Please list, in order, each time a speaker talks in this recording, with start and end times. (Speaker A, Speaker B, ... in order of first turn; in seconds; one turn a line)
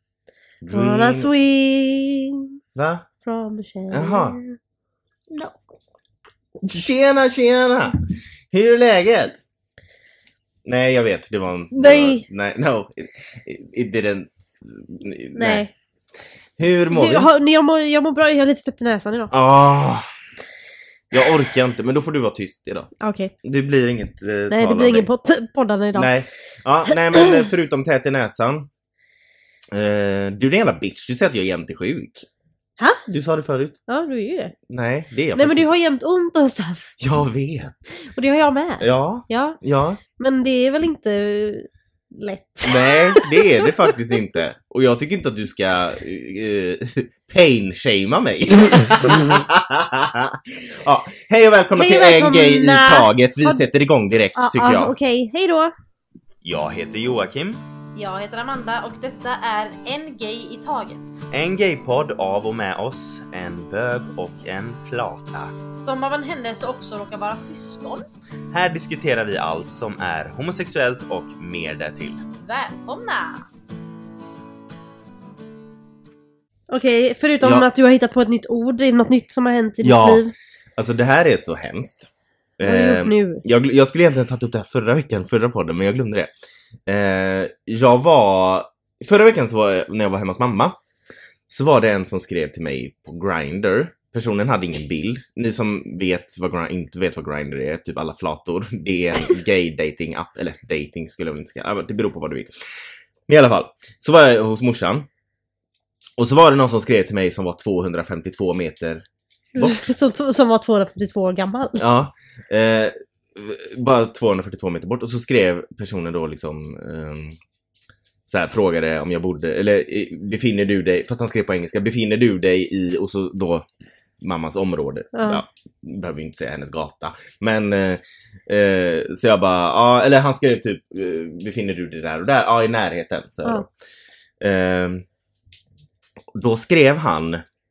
Speaker A: 0.6-1.3
Speaker B: 0.7-2.4
Speaker A: 2.7-3.0
Speaker B: 3.2-4.5
Speaker A: 3.9-4.4
Speaker A: 6.6-8.0
Speaker A: 8.5-9.4
Speaker A: 10.6-15.6
Speaker B: 11.7-12.2
Speaker B: 15.3-15.7
Speaker A: 16.6-17.3
Speaker B: 16.9-19.3
Speaker A: 19.3-20.1
Speaker A: 21.1-22.9
Speaker B: 23.0-23.3
Speaker A: 23.4-25.1
Speaker B: 24.5-26.1
Speaker A: 25.9-28.7
Speaker B: 26.9-27.4
Speaker A: 29.7-32.3
Speaker A: 33.1-33.8
Speaker B: 33.9-34.5
Speaker A: 34.7-35.7
Speaker B: 35.3-37.0
Speaker A: 37.0-38.0
Speaker B: 38.0-39.6
Speaker A: 38.8-40.0
Speaker B: 40.1-43.9
Speaker A: 42.6-54.9
Speaker B: 51.7-53.6
Speaker B: 54.3-55.7
Speaker A: 56.4-57.6
Speaker B: 58.0-61.2
Speaker A: 61.3-65.5
Speaker B: 65.8-68.1
Speaker A: 68.5-72.2
Speaker B: 72.4-73.4
Speaker B: 76.7-80.3
Speaker A: 77.4-77.7
Speaker A: 79.8-80.2
Speaker A: 80.8-86.3
Speaker B: 82.6-83.4
Speaker A: 86.9-90.8
Speaker A: 91.5-102.5
Speaker A: 103.3-105.1
Speaker A: 106.2-109.0
Speaker B: 109.5-111.8
Speaker A: 109.6-109.8
Speaker A: 111.8-117.3
Speaker A: 118.3-123.7
Speaker A: 124.2-133.7
Speaker B: 125.1-125.4
Speaker A: 134.4-135.0
Speaker A: 136.3-137.4